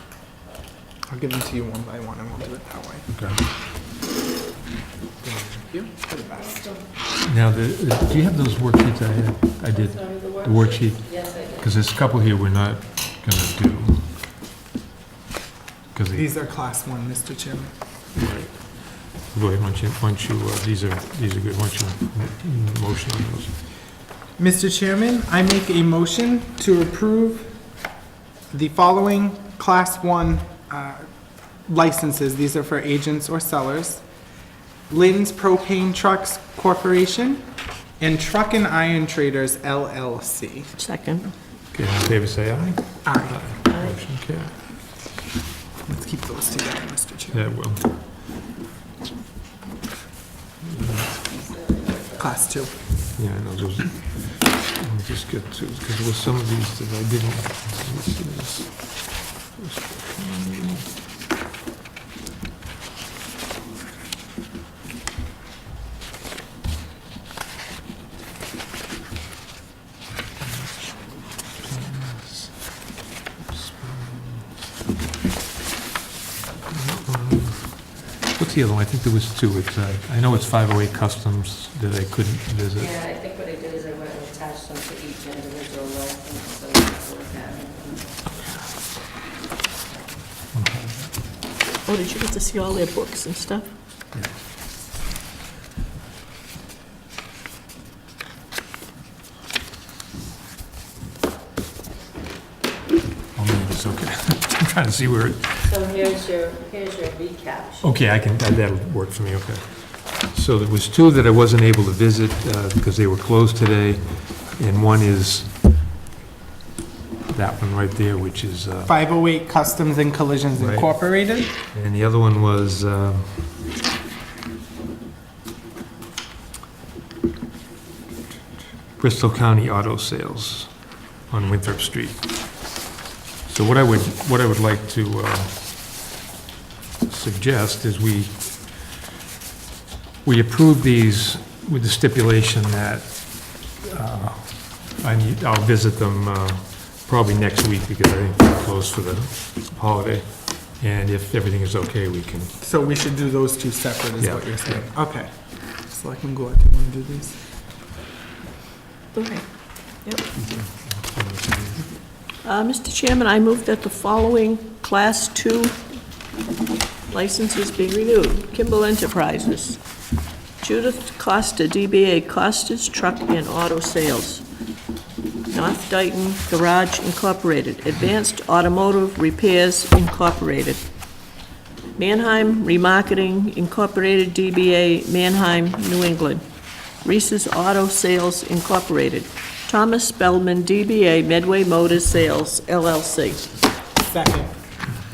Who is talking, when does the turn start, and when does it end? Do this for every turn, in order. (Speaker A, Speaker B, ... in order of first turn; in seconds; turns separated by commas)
Speaker A: 1.1-3.2, Speaker B: 3.1-3.4, Speaker A: 5.2-6.8, Speaker B: 7.2-14.1, Speaker C: 9.9-11.4, Speaker B: 15.9-16.3, Speaker A: 16.1-17.7, Speaker B: 18.1-23.6, Speaker A: 24.4-27.7, Speaker A: 28.5-31.1, Speaker A: 31.6-34.0, Speaker A: 34.9-37.5, Speaker A: 38.0-40.7, Speaker D: 40.8-41.3, Speaker B: 41.7-44.6, Speaker A: 43.0-43.4, Speaker A: 45.8-47.7, Speaker B: 47.3-47.9, Speaker B: 50.6-51.1, Speaker C: 51.5-52.1, Speaker A: 52.1-53.0, Speaker B: 53.1-60.9, Speaker B: 70.4-72.9, Speaker B: 73.4-74.5, Speaker B: 76.7-82.8, Speaker C: 82.8-88.4, Speaker C: 89.6-90.2, Speaker B: 90.5-91.1, Speaker D: 91.8-93.7, Speaker B: 103.3-105.8, Speaker C: 105.6-107.8, Speaker B: 107.8-115.5, Speaker B: 117.3-118.9, Speaker A: 118.8-121.5, Speaker B: 120.5-121.2, Speaker B: 121.7-123.6, Speaker B: 129.0-132.7, Speaker B: 133.4-136.1, Speaker B: 137.0-138.9, Speaker B: 140.2-152.6, Speaker A: 152.6-157.4, Speaker B: 154.2-154.9, Speaker D: 159.1-160.2, Speaker B: 160.3-161.9, Speaker D: 162.4-165.8, Speaker D: 167.1-169.8, Speaker D: 170.6-174.4, Speaker D: 175.5-180.8, Speaker D: 181.9-186.4, Speaker D: 187.0-193.5, Speaker A: 194.0-194.5